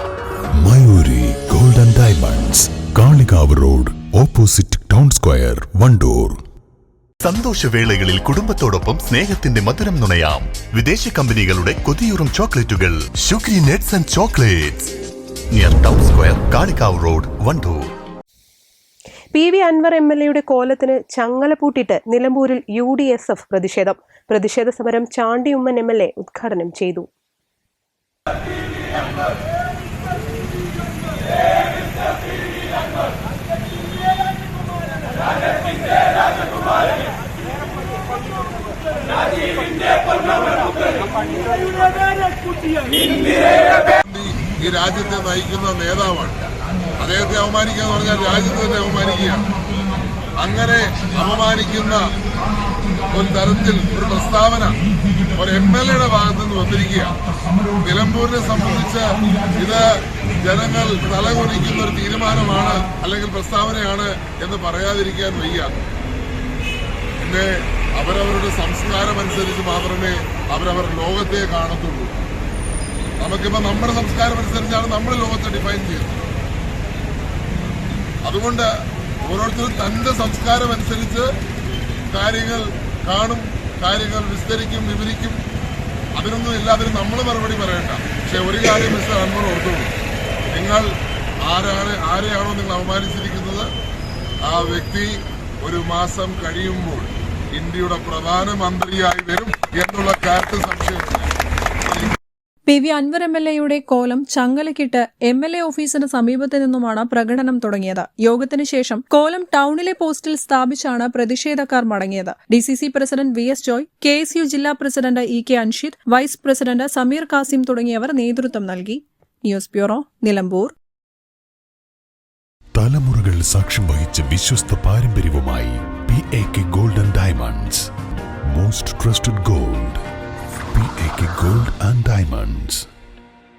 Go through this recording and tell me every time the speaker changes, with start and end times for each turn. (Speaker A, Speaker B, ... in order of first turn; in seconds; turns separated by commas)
Speaker A: 0.6-6.4, Speaker B: 7.2-14.9, Speaker B: 15.5-17.9, Speaker C: 19.3-27.1, Speaker D: 44.0-46.4, Speaker D: 47.0-49.4, Speaker D: 50.4-52.0, Speaker D: 53.1-54.8, Speaker D: 55.4-57.1, Speaker D: 57.8-59.8, Speaker D: 60.4-65.7, Speaker D: 67.2-72.1, Speaker D: 73.2-76.2, Speaker D: 78.2-78.7, Speaker D: 79.3-81.3, Speaker D: 82.1-85.4, Speaker D: 86.2-89.9, Speaker D: 90.5-90.9, Speaker D: 91.5-93.7, Speaker D: 94.5-95.1, Speaker D: 95.6-101.3, Speaker D: 101.9-102.2, Speaker E: 102.7-120.7, Speaker A: 122.8-127.9, Speaker A: 128.5-130.0, Speaker A: 130.7-132.8